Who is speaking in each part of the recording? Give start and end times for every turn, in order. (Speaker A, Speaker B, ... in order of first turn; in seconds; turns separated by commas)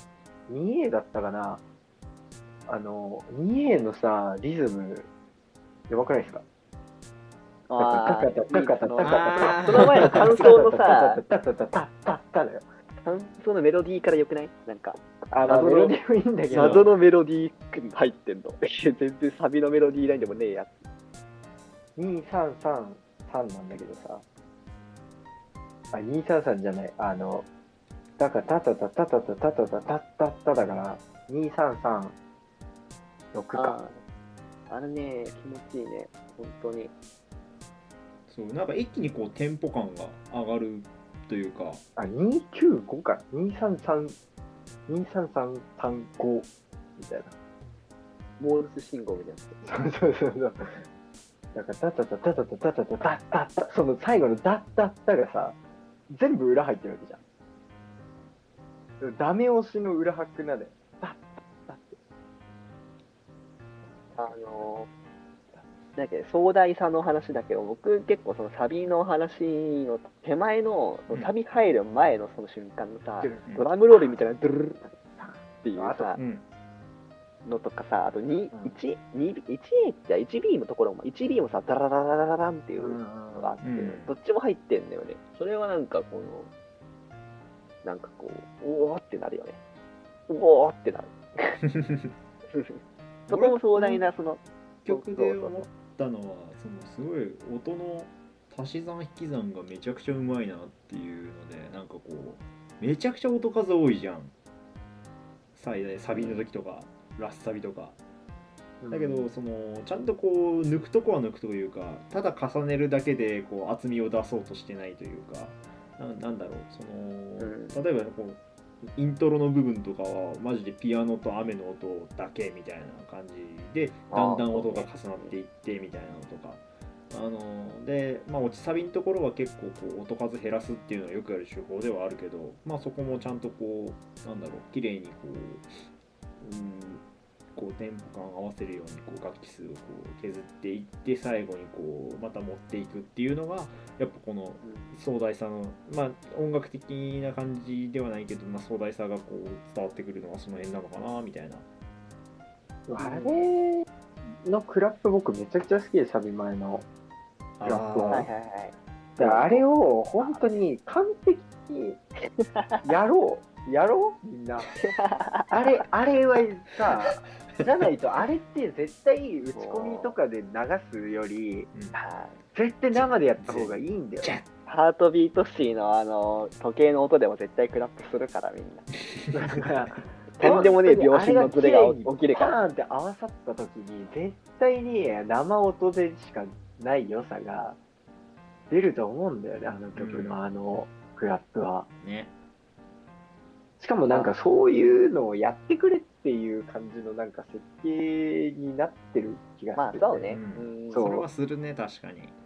Speaker A: 0.5-1.6, Speaker A: 2.7-5.1, Speaker A: 5.9-6.4, Speaker B: 7.7-11.2, Speaker A: 7.8-12.7, Speaker C: 9.0-10.6, Speaker B: 13.1-16.0, Speaker A: 15.3-16.9, Speaker B: 16.5-20.7, Speaker C: 16.5-16.9, Speaker A: 22.0-24.2, Speaker A: 25.9-27.5, Speaker A: 28.2-32.2, Speaker A: 33.3-33.8, Speaker B: 33.5-34.0, Speaker B: 34.7-36.9, Speaker C: 38.3-41.8, Speaker A: 42.0-44.2, Speaker A: 44.9-47.3, Speaker B: 48.4-49.6, Speaker A: 49.6-50.7, Speaker A: 51.5-55.6, Speaker A: 56.1-57.2, Speaker A: 59.0-62.0, Speaker B: 64.2-64.9, Speaker A: 64.2-64.7, Speaker B: 66.0-75.0, Speaker A: 73.2-73.5, Speaker A: 75.2-76.1, Speaker B: 75.6-76.2, Speaker C: 76.2-76.4, Speaker B: 77.5-86.5, Speaker A: 78.5-78.8, Speaker A: 82.8-83.6, Speaker C: 83.6-84.1, Speaker B: 87.8-89.6, Speaker B: 90.3-91.6, Speaker C: 91.8-92.1, Speaker B: 92.5-95.7, Speaker C: 93.3-94.1, Speaker C: 94.8-104.3, Speaker C: 105.6-108.0, Speaker A: 108.8-109.3, Speaker C: 108.9-135.8, Speaker B: 117.4-117.8, Speaker B: 124.1-125.3, Speaker C: 136.4-137.0, Speaker C: 137.6-151.7, Speaker B: 144.6-144.9, Speaker A: 152.9-153.9, Speaker B: 153.0-153.4, Speaker A: 154.4-156.9, Speaker C: 157.6-158.3, Speaker A: 157.6-158.3, Speaker B: 158.1-159.6, Speaker A: 159.2-162.0, Speaker B: 160.2-160.5, Speaker B: 162.4-162.8, Speaker A: 162.8-164.8, Speaker B: 164.8-165.8, Speaker A: 165.5-171.7, Speaker B: 169.5-170.2, Speaker B: 171.9-172.4, Speaker A: 172.5-174.3, Speaker C: 172.9-174.5, Speaker B: 174.7-178.9, Speaker A: 179.3-187.8, Speaker B: 180.4-182.6, Speaker A: 188.7-191.9, Speaker C: 189.9-190.4, Speaker C: 192.0-192.3, Speaker A: 193.8-200.4, Speaker B: 199.8-201.1, Speaker C: 200.3-202.3, Speaker A: 200.9-201.3